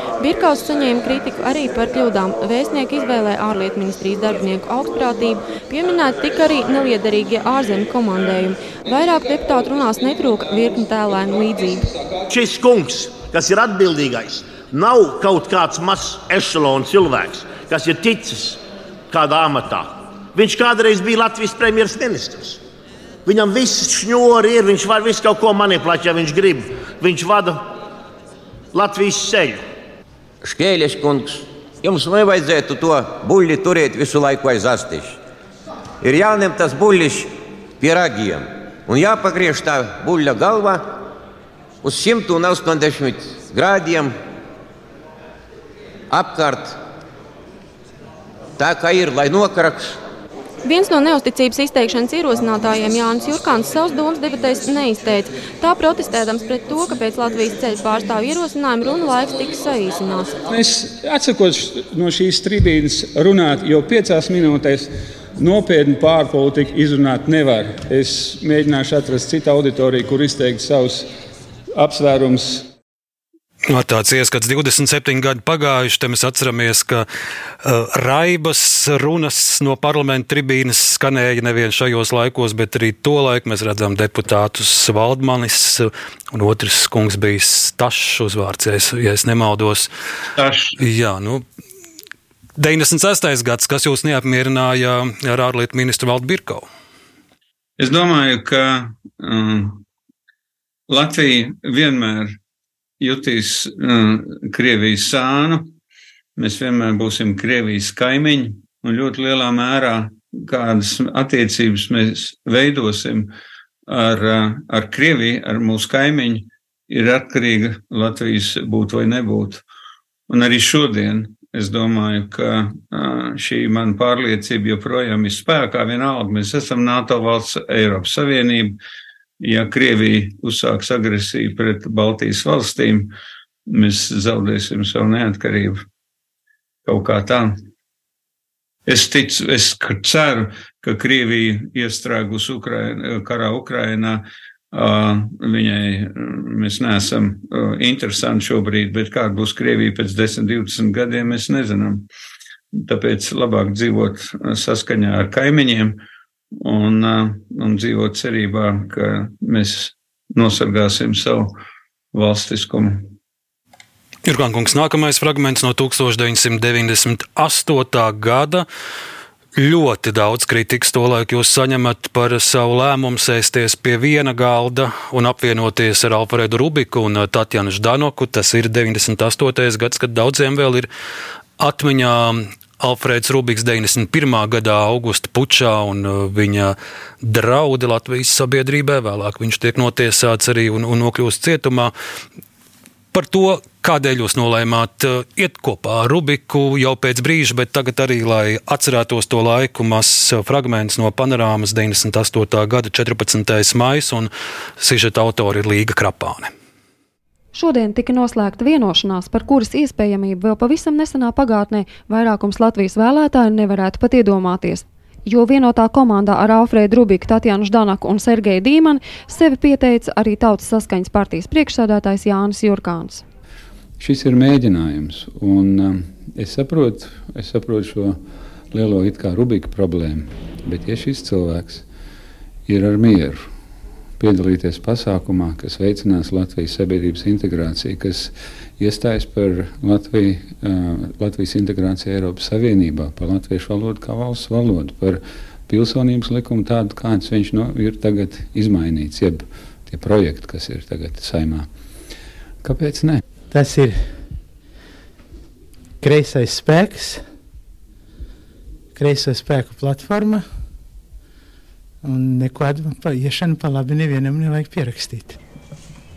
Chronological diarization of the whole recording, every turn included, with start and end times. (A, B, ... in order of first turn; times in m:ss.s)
0:00.2-0:11.9 A
0:12.3-0:18.6 B
0:19.1-0:22.6 B
0:23.2-0:27.6 B
0:28.7-0:29.6 B
0:30.4-0:35.2 C
0:36.0-0:40.8 C
0:41.8-0:44.2 C
0:46.1-0:46.8 C
0:48.6-0:50.0 C
0:50.6-1:00.4 A
1:00.5-1:11.1 D
1:11.7-1:12.7 D
1:13.6-1:17.0 E
1:17.6-1:29.9 E
1:30.4-1:30.7 F
1:30.8-1:31.4 E
1:32.6-1:36.7 E
1:37.8-1:39.8 F
1:40.9-1:42.4 F
1:43.0-1:45.7 F
1:46.4-1:53.3 F
1:53.9-1:59.6 F
2:00.3-2:08.8 F
2:09.4-2:13.1 F
2:13.7-2:15.8 F
2:16.8-2:17.5 F
2:18.8-2:32.1 F
2:32.7-2:36.0 F
2:36.6-2:41.5 F
2:42.1-2:43.1 F
2:44.2-2:48.6 E
2:49.5-3:00.9 E
3:01.6-3:11.9 E
3:13.1-3:26.5 E
3:27.5-3:43.2 G
3:44.0-3:48.2 H
3:48.7-3:51.8 H
3:52.7-3:53.4 H
3:54.2-4:11.7 H
4:12.6-4:13.2 H
4:13.5-4:14.3 I
4:16.0-4:17.3 I
4:18.9-4:20.5 I
4:22.0-4:25.4 I